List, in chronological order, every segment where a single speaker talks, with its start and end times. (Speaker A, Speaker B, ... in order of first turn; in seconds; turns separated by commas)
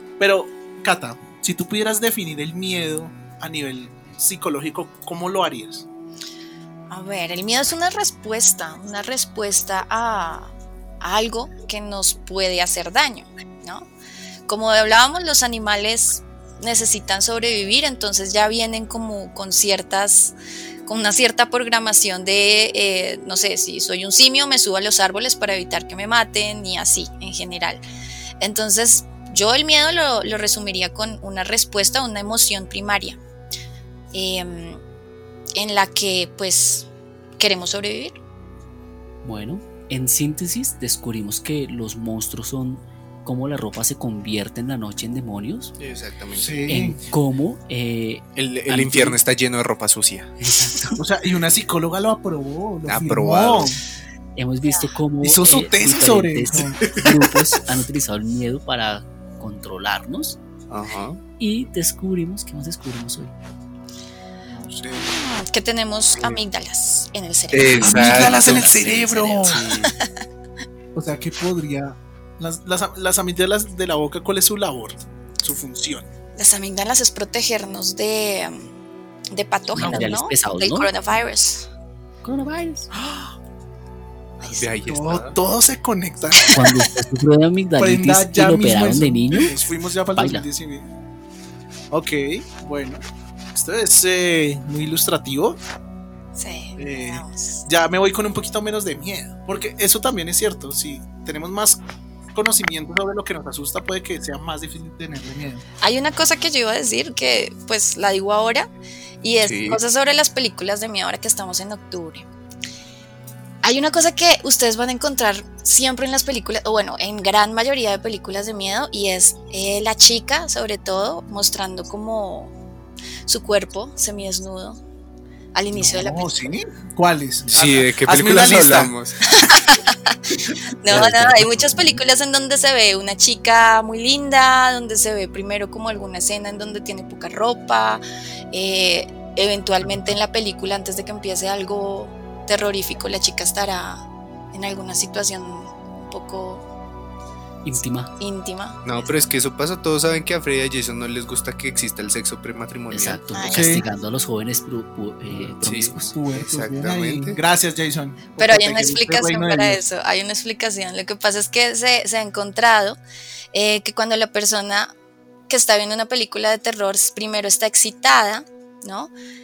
Speaker A: 0.2-5.9, Speaker B: 6.9-13.9, Speaker B: 14.5-20.3, Speaker B: 20.9-27.8, Speaker B: 28.4-33.2, Speaker B: 34.1-34.8, Speaker B: 35.5-38.2, Speaker C: 39.2-45.7, Speaker D: 45.8-46.6, Speaker A: 46.3-47.0, Speaker C: 46.7-49.2, Speaker D: 48.4-50.3, Speaker C: 50.4-51.0, Speaker A: 51.0-53.8, Speaker D: 52.9-53.8, Speaker C: 54.4-60.4, Speaker B: 54.6-54.9, Speaker A: 55.2-57.0, Speaker D: 56.9-57.2, Speaker D: 60.7-61.2, Speaker C: 61.4-63.3, Speaker A: 64.5-65.2, Speaker B: 65.1-68.0, Speaker D: 67.5-69.9, Speaker C: 67.6-69.6, Speaker A: 67.8-69.8, Speaker A: 71.0-76.1, Speaker B: 76.4-78.8, Speaker B: 79.3-81.7, Speaker C: 79.7-80.9, Speaker C: 82.2-82.9, Speaker A: 82.9-83.3, Speaker B: 84.4-84.7, Speaker D: 84.5-85.4, Speaker A: 84.8-86.4, Speaker B: 86.3-86.9, Speaker C: 86.5-89.5, Speaker A: 87.8-90.9, Speaker C: 90.2-90.5, Speaker A: 91.9-93.0, Speaker A: 93.5-95.6, Speaker B: 96.3-97.6, Speaker A: 96.8-101.8, Speaker A: 102.3-105.6, Speaker B: 105.8-108.7, Speaker B: 109.2-112.3, Speaker D: 109.4-109.8, Speaker B: 113.6-122.5, Speaker B: 123.2-124.8, Speaker B: 125.5-126.3, Speaker A: 125.7-128.9, Speaker D: 127.5-129.2, Speaker B: 129.2-130.2, Speaker B: 130.8-146.7, Speaker C: 130.9-131.5, Speaker C: 139.8-140.2, Speaker C: 147.7-148.1, Speaker B: 148.2-149.1, Speaker D: 148.8-153.2, Speaker C: 152.9-156.2, Speaker B: 153.3-153.8, Speaker A: 153.5-153.9, Speaker D: 155.4-157.4, Speaker A: 156.1-159.8, Speaker B: 158.4-163.0, Speaker B: 163.5-164.9, Speaker B: 165.5-169.1